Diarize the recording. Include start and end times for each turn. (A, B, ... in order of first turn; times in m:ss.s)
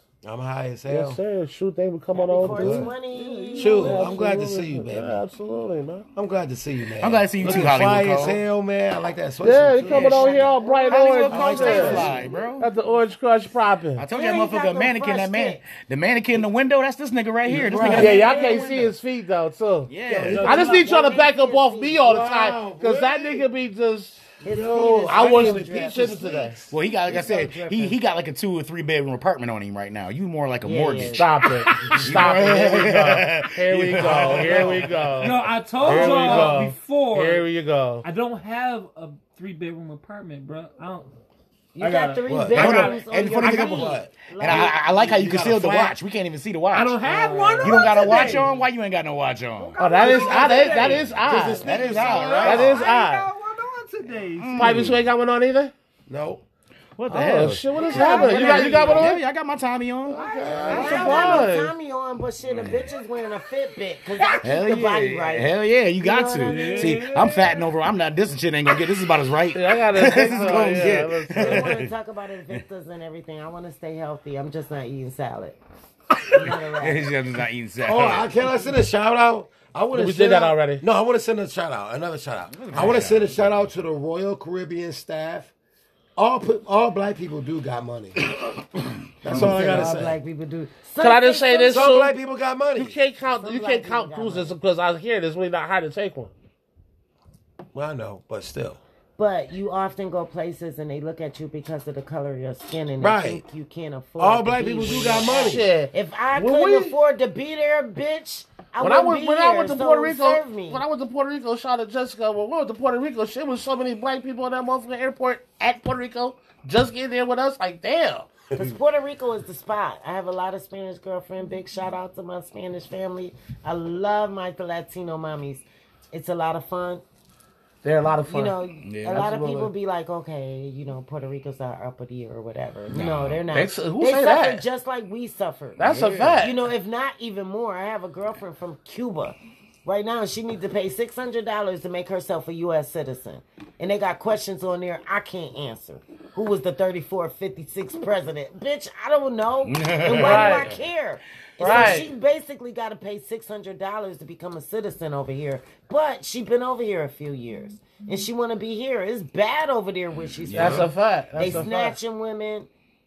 0:00.2-0:01.2 A
0:00.9-0:06.0 B
0:02.1-0:04.2 C
0:02.4-0:02.9 A
0:03.6-0:05.2 A
0:06.1-0:10.6 A
0:07.0-0:08.4 D
0:07.4-0:07.7 B
0:09.4-0:14.0 B
0:09.8-0:12.2 C
0:10.9-0:12.7 D
0:11.3-0:12.2 A
0:14.0-0:18.9 D
0:14.1-0:15.6 C
0:17.5-0:18.4 A
0:17.7-0:18.7 C
0:17.9-0:24.2 B
0:19.9-0:20.7 D
0:20.1-0:20.9 A
0:20.1-0:22.0 C
0:22.0-0:23.4 A
0:24.4-0:28.0 C
0:24.4-0:26.7 A
0:24.7-0:26.5 B
0:26.7-0:36.5 D
0:30.6-0:31.3 C
0:31.2-0:38.0 B
0:35.2-0:37.4 E
0:35.8-0:36.6 A
0:38.0-0:41.1 E
0:41.7-0:45.1 C
0:41.8-0:43.1 E
0:42.3-0:45.9 A
0:42.5-0:47.0 D
0:46.7-0:48.5 E
0:47.0-0:48.4 C
0:47.6-0:52.8 D
0:49.6-0:54.8 E
0:49.8-0:51.6 B
0:50.0-0:50.8 A
0:52.4-0:53.2 B
0:54.4-0:55.0 D
0:54.6-0:55.7 B
0:56.1-0:56.4 A
0:57.0-1:00.2 D
0:57.1-0:59.2 B
0:57.4-0:58.6 E
0:57.9-0:59.0 C
1:00.1-1:01.4 A
1:00.1-1:01.7 B
1:00.4-1:01.2 E
1:00.7-1:07.0 C
1:02.4-1:02.9 D
1:04.2-1:04.5 E
1:04.4-1:11.9 D
1:06.4-1:07.6 E
1:09.5-1:11.7 B
1:10.3-1:15.6 C
1:16.3-1:17.1 C
1:16.3-1:18.3 D
1:17.8-1:25.5 A
1:19.9-1:20.8 B
1:22.5-1:23.3 D
1:26.2-1:28.2 A
1:29.2-1:30.2 A
1:29.2-1:29.8 D
1:29.2-1:32.0 C
1:31.0-1:32.1 B
1:31.7-1:33.0 A
1:32.7-1:36.3 B
1:33.4-1:34.5 C
1:37.7-1:38.8 A
1:39.2-1:50.8 C
1:43.0-1:43.4 A
1:44.2-1:45.7 A
1:44.8-1:47.0 B
1:48.8-1:58.3 B
1:58.5-2:07.0 C
2:07.8-2:09.7 B
2:08.3-2:15.8 C
2:08.8-2:09.3 D
2:12.9-2:13.4 D
2:12.9-2:14.6 B
2:15.8-2:16.6 B
2:15.8-2:16.5 D
2:16.4-2:42.7 C
2:29.6-2:30.8 D
2:30.1-2:30.7 B
2:31.6-2:32.1 B
2:40.2-2:40.9 D
2:40.5-2:42.0 B